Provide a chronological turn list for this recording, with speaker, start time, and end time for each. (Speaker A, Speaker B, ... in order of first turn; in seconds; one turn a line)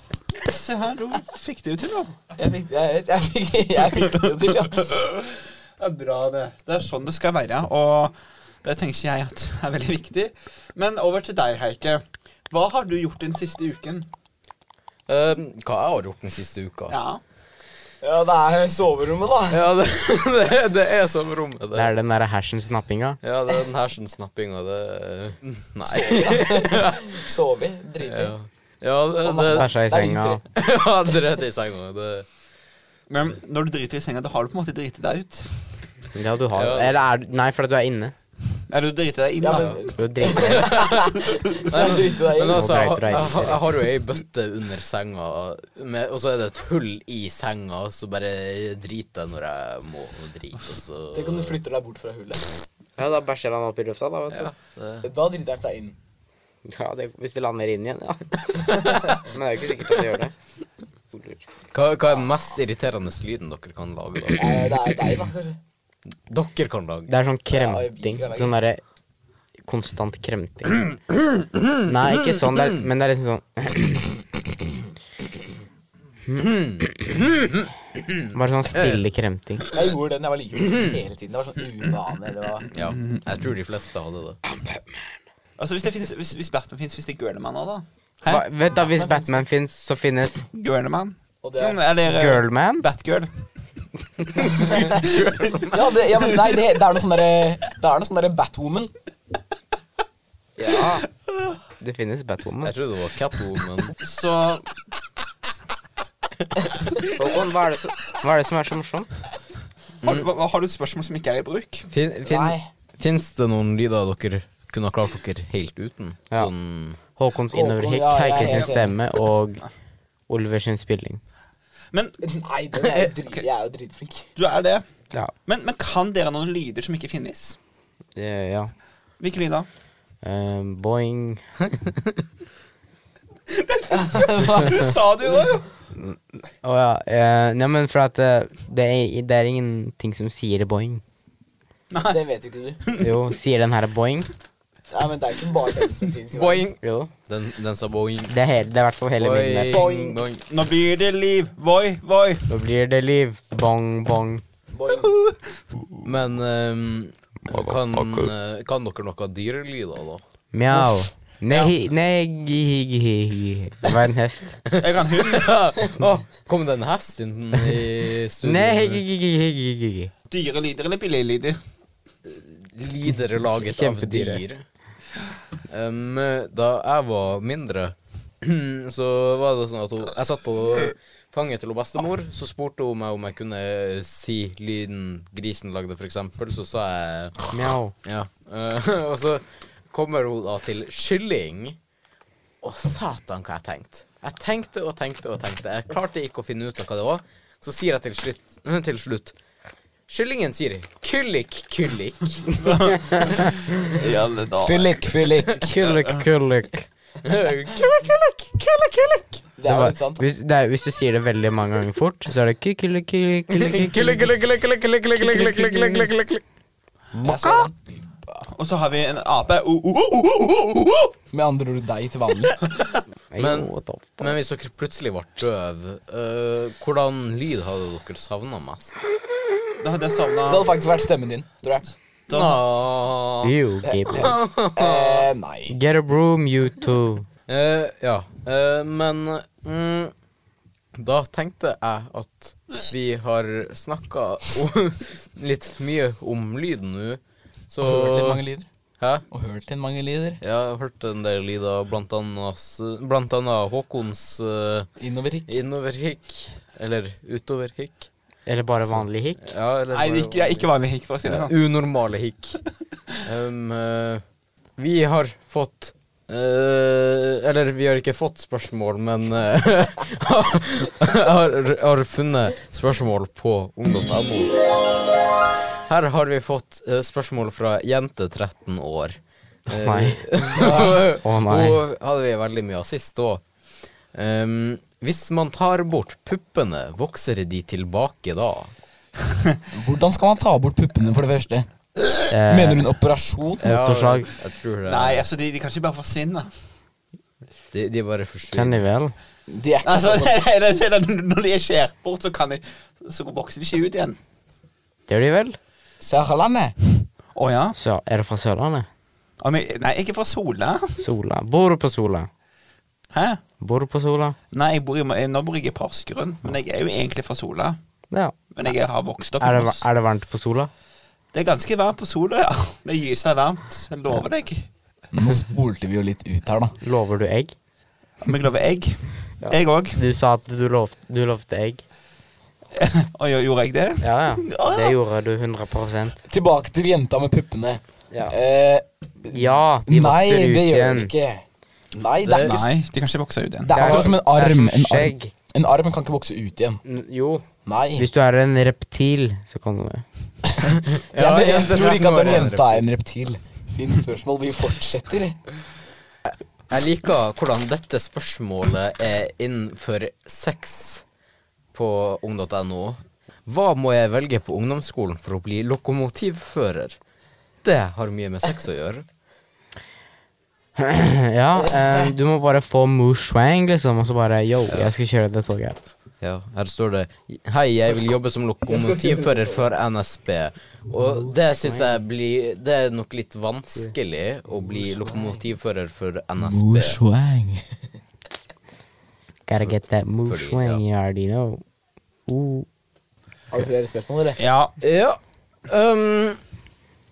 Speaker A: 0.4-2.2
Speaker B: 2.4-5.0
Speaker A: 5.0-14.1
Speaker C: 15.1-17.0
Speaker A: 16.9-17.2
Speaker B: 18.0-19.7
Speaker C: 19.5-21.9
Speaker D: 21.7-23.2
Speaker C: 23.2-27.3
Speaker B: 25.9-28.4
Speaker C: 28.0-29.7
Speaker B: 29.2-30.4
Speaker D: 29.5-30.4
Speaker C: 30.5-32.3
Speaker A: 33.1-35.6
Speaker D: 36.1-38.1
Speaker C: 36.5-37.0
Speaker A: 38.7-39.9
Speaker B: 39.4-42.9
Speaker D: 40.0-40.8
Speaker C: 40.3-51.6
Speaker A: 41.3-41.7
Speaker D: 42.5-43.7
Speaker B: 51.1-52.5
Speaker D: 53.0-54.5
Speaker C: 54.3-55.1
Speaker B: 55.0-56.0
Speaker D: 56.6-60.3
Speaker B: 58.7-59.1
Speaker D: 61.1-61.4
Speaker C: 61.7-64.7
Speaker B: 64.3-65.6
Speaker C: 66.3-67.1
Speaker D: 67.1-68.8
Speaker B: 67.5-68.6
Speaker D: 69.6-70.9
Speaker C: 71.3-72.8
Speaker D: 71.8-74.2
Speaker D: 76.3-76.8
Speaker C: 76.3-78.2
Speaker D: 78.3-79.7
Speaker B: 79.7-82.7
Speaker C: 82.7-84.4
Speaker A: 85.6-88.5
Speaker D: 88.3-90.4
Speaker B: 88.8-89.4
Speaker A: 90.5-93.3
Speaker B: 91.4-91.8
Speaker D: 92.0-92.9
Speaker A: 94.4-95.8
Speaker B: 94.5-98.9
Speaker D: 100.6-101.1
Speaker D: 101.8-102.7
Speaker C: 102.6-104.0
Speaker A: 104.0-104.7
Speaker D: 107.0-109.1
Speaker C: 110.0-110.3
Speaker A: 110.0-111.9
Speaker C: 111.9-117.0
Speaker B: 112.2-112.7
Speaker D: 117.2-119.7
Speaker B: 117.5-119.0
Speaker A: 118.4-118.8
Speaker D: 120.3-121.2
Speaker A: 121.9-122.2
Speaker B: 122.2-124.3
Speaker A: 122.9-123.5
Speaker A: 124.4-124.9
Speaker A: 125.5-127.6
Speaker D: 128.2-128.7
Speaker A: 129.2-129.7
Speaker D: 130.2-131.4
Speaker A: 133.5-135.7
Speaker B: 133.9-135.4
Speaker D: 135.9-141.0
Speaker A: 141.9-142.2
Speaker B: 142.1-142.8
Speaker D: 143.0-144.3
Speaker B: 144.9-146.7
Speaker C: 146.3-148.3
Speaker D: 146.8-147.1
Speaker D: 148.3-149.8
Speaker C: 149.2-150.4
Speaker B: 149.7-150.2
Speaker A: 150.5-152.5
Speaker D: 152.5-154.4
Speaker B: 154.7-155.2
Speaker C: 156.0-160.2
Speaker D: 160.5-164.6
Speaker C: 164.7-169.0
Speaker A: 164.8-165.6
Speaker D: 168.4-170.1
Speaker A: 170.3-171.6
Speaker C: 172.3-174.6
Speaker D: 173.6-174.4
Speaker C: 175.7-187.5
Speaker D: 187.5-187.9
Speaker C: 188.0-191.8
Speaker C: 192.6-199.3
Speaker C: 200.1-202.6
Speaker A: 202.5-205.0
Speaker B: 204.6-205.7
Speaker D: 205.6-206.9
Speaker A: 205.8-206.2
Speaker C: 207.2-209.4
Speaker B: 209.6-210.3
Speaker D: 209.7-214.2
Speaker C: 213.5-216.4
Speaker D: 215.2-216.1
Speaker D: 217.2-217.7
Speaker B: 217.2-218.5
Speaker A: 218.5-221.1
Speaker B: 221.3-222.6
Speaker D: 223.3-224.3
Speaker C: 223.4-229.1
Speaker A: 229.8-230.7
Speaker B: 230.5-231.9
Speaker A: 232.3-232.6
Speaker C: 232.3-233.6
Speaker D: 233.4-234.3
Speaker B: 233.8-235.8
Speaker C: 234.1-235.3
Speaker D: 235.7-237.3
Speaker C: 237.5-240.1
Speaker C: 241.0-248.4
Speaker B: 247.8-248.7
Speaker C: 249.0-249.2
Speaker B: 249.3-250.4
Speaker C: 250.4-254.9
Speaker B: 255.0-255.6
Speaker C: 255.5-258.1
Speaker D: 258.5-259.4
Speaker C: 258.8-260.7
Speaker A: 259.9-261.5
Speaker C: 261.2-262.6
Speaker C: 263.2-264.2
Speaker C: 264.8-274.6
Speaker C: 275.9-283.4
Speaker D: 279.7-280.2
Speaker B: 280.6-281.1
Speaker D: 281.1-281.8
Speaker C: 284.1-288.7
Speaker B: 289.7-291.7
Speaker D: 292.3-292.9
Speaker B: 292.5-293.6
Speaker D: 293.6-294.3
Speaker C: 293.6-295.3
Speaker A: 294.9-296.5
Speaker C: 297.7-298.8
Speaker D: 298.5-299.1
Speaker B: 299.5-300.4
Speaker A: 299.8-304.2
Speaker D: 305.1-305.6
Speaker B: 306.0-306.8
Speaker A: 307.4-307.8
Speaker D: 307.8-308.9
Speaker A: 309.4-311.1
Speaker D: 311.0-312.3
Speaker A: 313.1-313.4
Speaker D: 313.6-314.4
Speaker A: 314.5-317.8
Speaker D: 318.1-318.7
Speaker A: 318.5-319.9
Speaker D: 319.4-320.7
Speaker A: 321.3-324.7
Speaker B: 325.1-326.8
Speaker D: 326.8-327.5
Speaker A: 328.2-330.0
Speaker D: 329.4-331.8
Speaker A: 332.7-335.0
Speaker D: 334.0-336.2
Speaker B: 336.3-342.7
Speaker D: 338.1-338.4
Speaker D: 339.3-341.1
Speaker C: 342.2-342.6
Speaker A: 342.4-344.1
Speaker B: 343.6-346.8
Speaker D: 343.7-345.3
Speaker D: 346.8-347.4
Speaker B: 347.6-348.1
Speaker D: 348.0-350.1
Speaker B: 350.6-355.4
Speaker C: 350.9-352.8
Speaker C: 356.2-361.0
Speaker C: 361.7-367.0
Speaker C: 367.6-369.1
Speaker D: 370.8-375.8
Speaker B: 371.6-372.1
Speaker C: 376.2-387.0
Speaker B: 378.7-379.6
Speaker D: 381.3-382.0
Speaker B: 386.4-387.8
Speaker D: 389.5-391.6
Speaker C: 389.6-390.8
Speaker D: 392.3-392.7
Speaker B: 393.5-394.4
Speaker A: 394.4-394.7
Speaker C: 394.8-396.4